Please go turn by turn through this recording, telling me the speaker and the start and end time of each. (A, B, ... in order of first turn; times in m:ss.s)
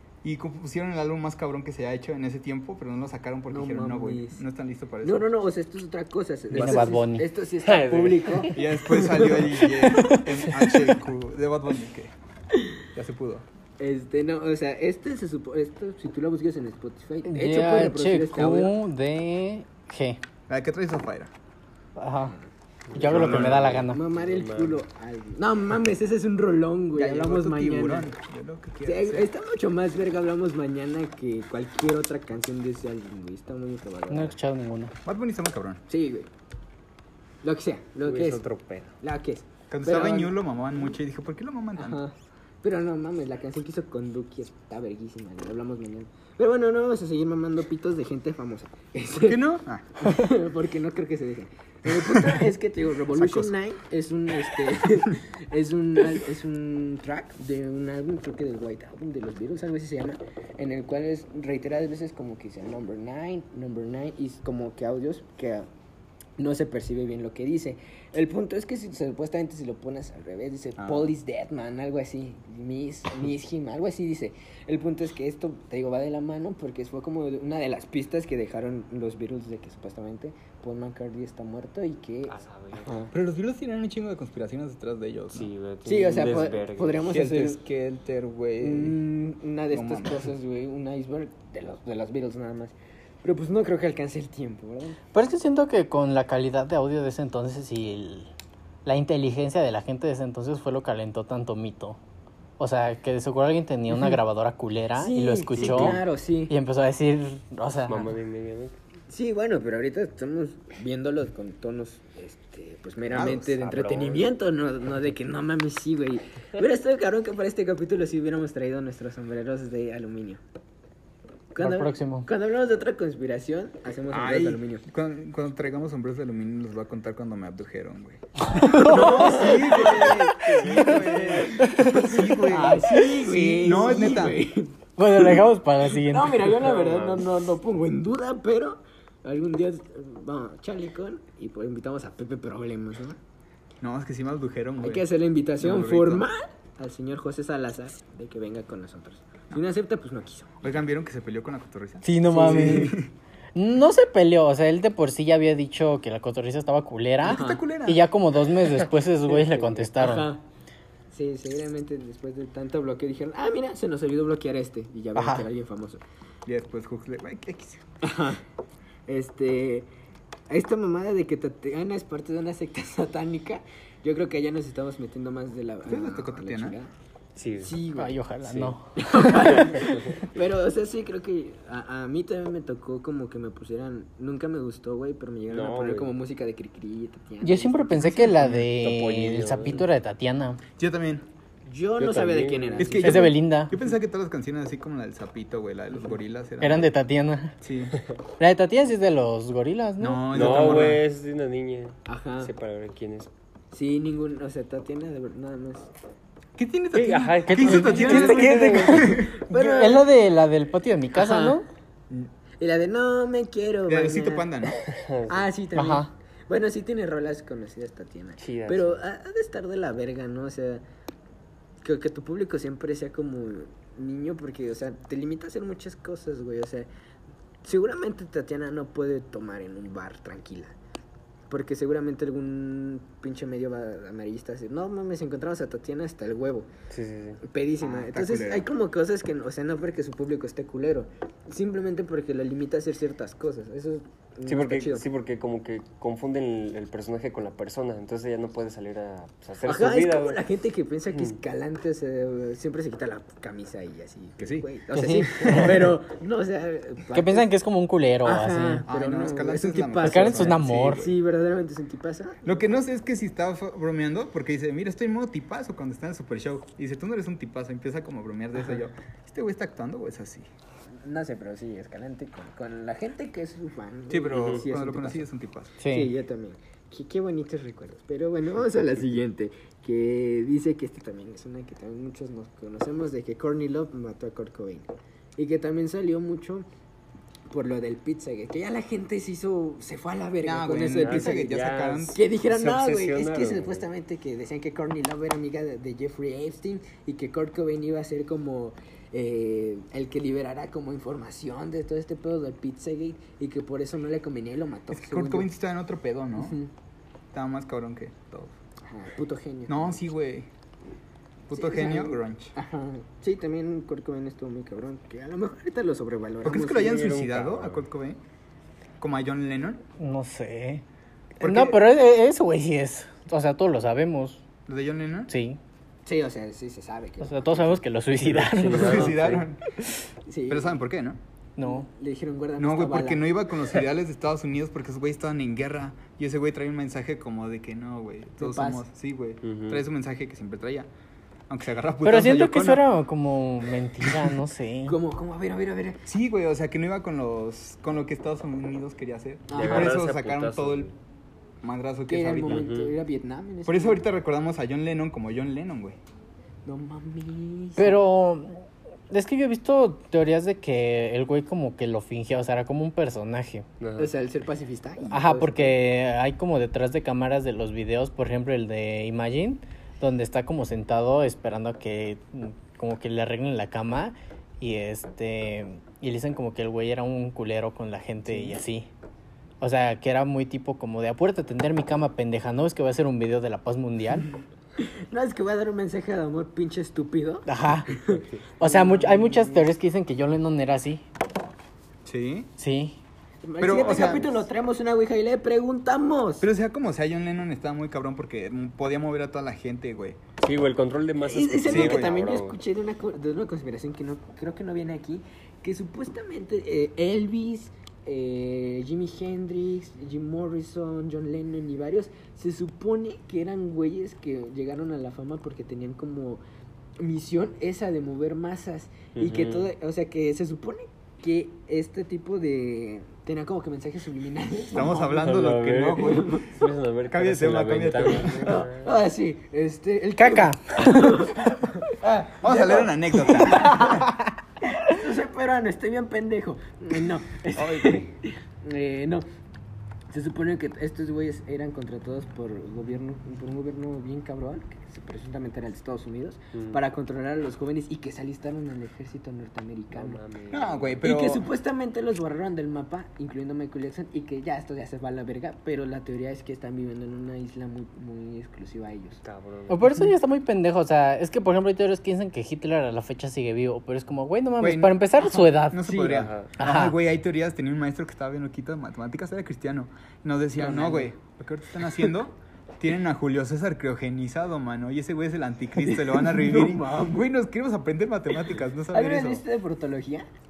0:00.2-0:05.2 A
0:03.5-0:04.4 B
0:05.0-0:09.3 B
0:06.5-0:07.2 C
0:06.6-0:06.8 A
0:07.6-0:08.6 D
0:08.5-0:12.1 A
0:09.9-0:10.3 C
0:12.9-0:13.4 A
0:13.8-0:18.7 B
0:17.2-0:20.2 C
0:20.5-0:21.3 A
0:22.0-0:22.4 C
0:22.9-0:24.8 D
0:22.9-0:24.0 C
0:23.0-0:23.8 A
0:23.1-0:28.1 B
0:26.9-0:29.3 A
0:28.8-0:34.4 B
0:34.1-0:34.9 C
0:35.0-0:35.8 A
0:35.9-0:36.3 B
0:37.4-0:38.4 B
0:38.0-0:38.9 D
0:39.0-0:40.3 B
0:39.7-0:42.0 A
0:41.8-0:49.4 B
0:49.2-0:50.0 A
0:50.0-1:05.7 B
0:52.1-0:52.4 A
0:53.1-0:53.5 A
1:06.4-1:23.1 B
1:10.8-1:11.1 A
1:22.3-1:23.0 D
1:23.1-1:25.5 A
1:25.3-1:27.0 D
1:25.8-1:27.6 B
1:27.0-1:29.0 A
1:28.6-1:35.0 B
1:29.7-1:30.3 A
1:35.1-1:38.3 C
1:38.8-1:42.0 C
1:42.6-1:48.1 C
1:43.9-1:44.2 B
1:45.0-1:46.5 B
1:45.6-1:46.0 D
1:47.9-1:48.8 D
1:49.1-2:00.4 B
1:53.1-1:53.5 A
1:53.2-1:54.3 D
2:01.5-2:04.8 B
2:01.6-2:02.3 C
2:04.1-2:14.4 A
2:08.5-2:10.2 C
2:08.6-2:15.3 B
2:10.0-2:11.6 D
2:11.6-2:12.1 C
2:15.0-2:16.6 C
2:15.9-2:23.2 B
2:16.5-2:17.3 D
2:23.8-2:25.0 A
2:24.8-2:30.7 B
2:25.6-2:26.3 A
2:30.6-2:33.1 A
2:32.0-2:33.0 C
2:32.3-2:32.9 B
2:33.5-2:40.3 C
2:37.2-2:38.0 A
2:37.2-2:37.6 B
2:38.6-2:40.4 B
2:41.1-2:46.0 B
2:45.2-2:45.5 C
2:46.4-2:47.8 A
2:48.0-2:48.4 B
2:49.1-2:49.9 B
2:50.5-2:56.9 B
2:55.8-2:56.8 A
2:57.4-2:57.8 D
2:57.6-2:58.2 B
2:57.9-3:00.0 C
2:58.4-2:58.7 D
2:59.0-3:08.3 B
2:59.4-3:00.2 D
3:05.5-3:06.1 D
3:07.4-3:10.6 C
3:08.4-3:09.8 D
3:08.4-3:08.6 A
3:10.8-3:11.2 A
3:11.6-3:13.4 B
3:12.0-3:13.0 D
3:12.8-3:16.9 A
3:13.0-3:13.7 C
3:16.6-3:17.6 C
3:17.6-3:18.0 A
3:18.4-3:20.5 C
3:20.0-3:21.0 A
3:20.3-3:23.3 D
3:22.1-3:22.5 B
3:23.7-3:25.9 B
3:26.6-3:29.4 A
3:26.9-3:29.0 D
3:27.5-3:31.6 C
3:27.8-3:30.1 B
3:31.1-3:31.6 B
3:32.6-3:40.8 B
3:33.9-3:34.8 A
3:34.9-3:35.5 D
3:35.7-3:36.1 C
3:38.4-3:39.0 D
3:41.8-3:46.9 B
3:47.6-3:50.7 B
3:51.5-3:56.7 B
3:56.9-3:57.4 D
3:57.4-4:05.0 B
3:57.8-3:58.7 A
4:04.4-4:10.4 D
4:09.6-4:17.5 B
4:11.1-4:11.4 D
4:14.4-4:14.7 A
4:14.9-4:15.6 C
4:15.4-4:15.9 A
4:17.1-4:18.8 C
4:18.2-4:22.6 B
4:18.9-4:21.2 A
4:20.0-4:21.0 C
4:22.4-4:30.5 A
4:31.0-4:35.3 B
4:34.1-4:35.8 A
4:34.3-4:34.6 D
4:35.8-4:36.1 C
4:35.9-4:46.7 B
4:47.5-4:51.5 B
4:50.4-4:52.2 A
4:50.8-4:53.9 D
4:52.0-5:05.5 B
5:04.9-5:06.6 A
5:06.4-5:06.7 B
5:07.3-5:08.5 A
5:08.8-5:10.0 B
5:09.7-5:10.5 A
5:11.5-5:12.5 A
5:11.5-5:17.0 B
5:16.4-5:18.2 A
5:16.7-5:17.8 D
5:19.0-5:19.8 A
5:20.0-5:20.8 C
5:21.4-5:21.8 A
5:21.4-5:24.4 C
5:24.7-5:25.3 A
5:25.3-5:25.6 C
5:26.0-5:27.8 B
5:27.2-5:29.1 C
5:28.4-5:29.4 D
5:28.6-5:29.7 A
5:28.8-5:29.3 B
5:30.3-5:30.8 B
5:30.5-5:31.2 A
5:31.6-5:31.9 C
5:31.6-5:33.5 B
5:32.6-5:40.9 A
5:38.4-5:38.8 B
5:39.4-5:39.8 D
5:41.5-5:42.8 A
5:42.0-5:45.0 C
5:44.0-5:44.3 A
5:44.8-5:46.0 B
5:46.0-5:50.9 A
5:49.5-5:50.0 B
5:49.5-5:50.9 D
5:51.6-5:52.7 A
5:52.1-5:54.0 B
5:52.4-5:52.9 D
5:53.6-5:56.0 A
5:56.6-5:58.0 B
5:57.8-6:03.6 C
6:03.8-6:04.1 D
6:04.0-6:05.8 B
6:05.1-6:18.9 C
6:18.3-6:18.6 B
6:19.6-6:24.3 C
6:24.8-6:29.7 B
6:27.4-6:28.0 C
6:28.6-6:31.0 C
6:32.0-6:32.5 A
6:32.6-6:33.0 C
6:33.4-6:36.4 B
6:33.6-6:34.3 A
6:36.4-6:40.2 A
6:40.4-6:42.6 D
6:41.2-6:56.4 B
6:41.6-6:42.2 A
6:57.0-7:05.2 B
6:59.1-6:59.7 D
7:04.7-7:06.4 A
7:04.8-7:09.0 D
7:06.0-7:06.5 B
7:07.1-7:08.6 A
7:08.4-7:14.0 B
7:10.2-7:11.4 C
7:12.4-7:14.1 A
7:13.8-7:14.1 C
7:14.8-7:19.2 B
7:17.5-7:18.0 A
7:20.1-7:30.2 B
7:26.5-7:26.8 D
7:29.9-7:31.0 D
7:30.5-7:31.5 A
7:31.0-7:39.2 B
7:39.2-7:39.9 D
7:39.7-7:47.0 C
7:44.6-7:59.4 A
7:46.0-7:46.5 D
7:50.6-7:51.1 B
7:55.8-7:57.2 B
7:58.9-8:00.3 B